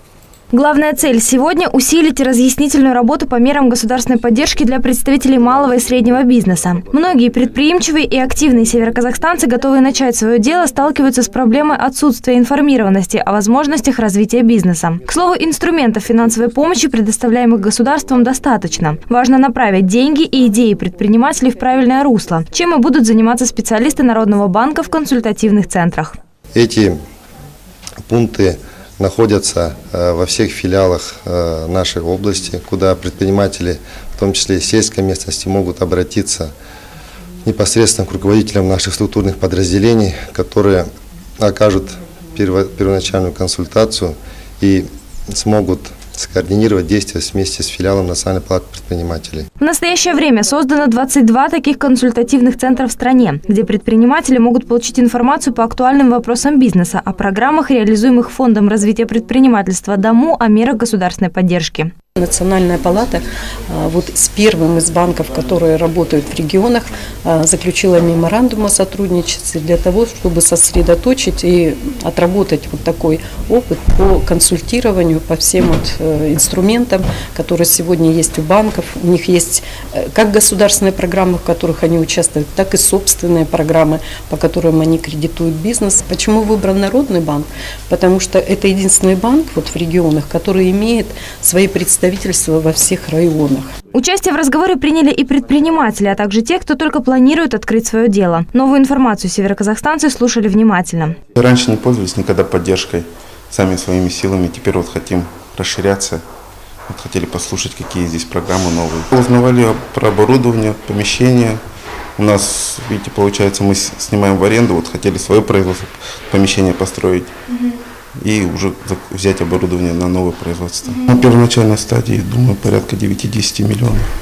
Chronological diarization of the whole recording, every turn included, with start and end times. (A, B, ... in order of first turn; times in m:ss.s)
0:00.5-0:26.1 A
0:26.5-0:27.0 B
0:28.1-0:36.5 B
0:37.4-0:40.9 B
0:41.4-0:49.5 B
0:49.6-1:01.9 A
1:02.2-1:33.7 C
1:33.9-1:41.2 A
1:41.4-1:46.2 D
1:46.9-1:51.6 D
1:52.2-1:57.3 D
1:58.2-2:04.1 D